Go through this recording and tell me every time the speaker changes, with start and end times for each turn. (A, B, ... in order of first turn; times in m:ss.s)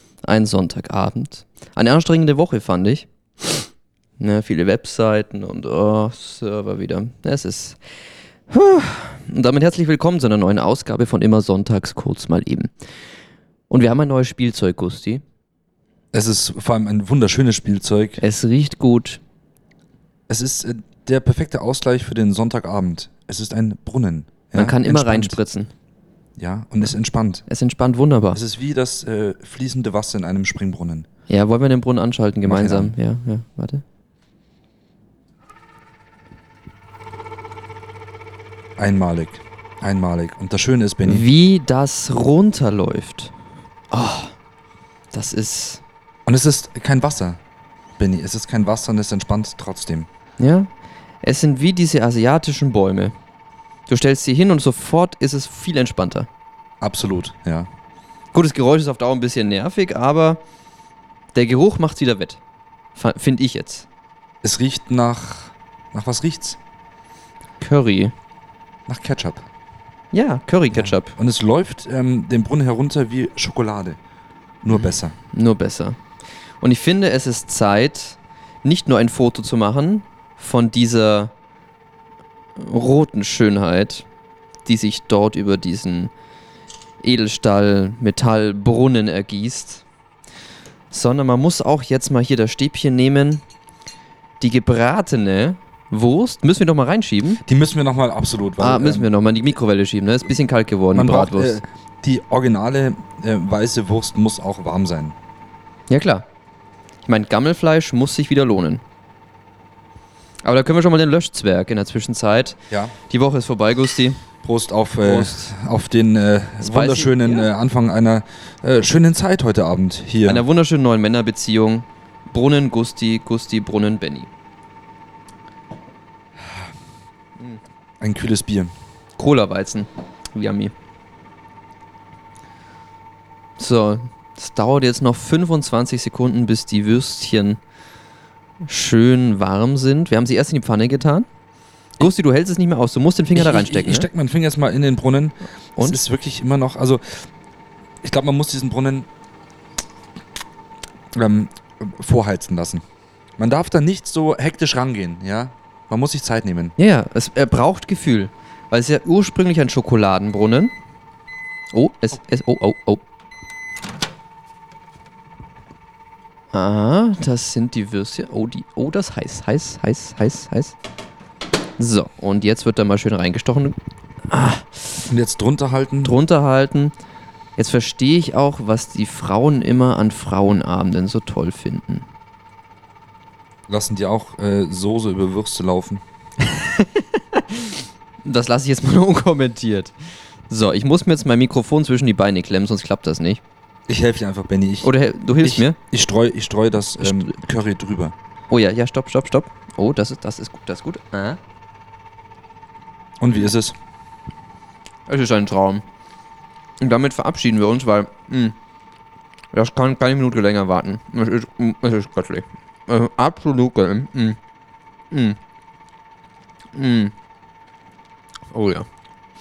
0:00.2-0:03.7 A
0:04.2-0:07.8 A
0:08.5-0:12.7 A
0:13.7-0:15.2 A
0:16.1-0:18.2 B
0:18.2-0:19.2 A
0:20.3-0:25.4 B
0:24.6-0:25.7 A
0:26.4-0:27.4 B
0:27.5-0:28.4 A
0:28.3-0:31.1 B
0:31.3-0:33.8 A
0:32.5-0:32.9 B
0:38.8-0:41.3 B
0:41.0-0:43.3 A
0:43.9-0:44.3 A
0:45.1-0:45.8 A
0:46.3-0:47.4 B
0:48.0-0:50.1 B
0:50.4-0:50.7 A
0:51.2-0:53.1 A
0:53.9-0:56.3 A
0:56.8-0:57.7 B
0:58.3-1:00.4 A
1:01.3-1:02.4 A
1:03.0-1:03.9 A
1:04.4-1:06.6 B
1:07.6-1:08.1 A
1:08.9-1:09.4 B
1:10.1-1:11.2 A
1:10.7-1:14.0 B
1:14.6-1:15.2 B
1:14.7-1:16.0 A
1:16.6-1:21.3 A
1:22.6-1:24.1 A
1:24.7-1:26.1 A
1:27.0-1:29.8 A
1:30.9-1:33.4 A
1:34.4-1:37.4 A
1:37.5-1:39.1 B
1:38.6-1:41.6 A
1:40.9-1:45.2 B
1:45.9-1:46.2 A
1:47.0-1:48.8 A
1:50.4-1:54.2 A
1:54.4-2:00.4 B
1:55.0-1:55.5 A
1:56.6-1:57.5 A
2:00.2-2:04.3 A
2:08.0-2:08.7 B
2:09.2-2:10.7 A
2:13.6-2:17.6 A
2:18.6-2:21.3 A
2:22.0-2:24.1 A
2:23.3-2:27.2 B
2:28.0-2:29.1 B
2:31.1-2:32.8 B
2:33.4-2:36.8 B
2:36.8-2:40.7 A
2:41.7-2:43.0 A
2:46.5-2:50.8 A
2:51.8-2:53.8 A
2:54.3-2:55.1 A
2:55.1-2:56.2 B
2:56.0-2:56.9 A
2:57.6-3:02.1 A
3:03.7-3:06.0 B
3:06.4-3:09.9 A
3:10.5-3:13.4 A
3:13.9-3:18.2 B
3:14.8-3:15.8 A
3:17.0-3:17.4 A
3:18.5-3:21.4 A
3:23.2-3:23.8 B
3:25.1-3:25.8 A
3:26.8-3:28.6 A
3:29.5-3:34.4 A
3:35.1-3:35.4 A
3:36.8-3:37.1 A
3:38.5-3:38.9 A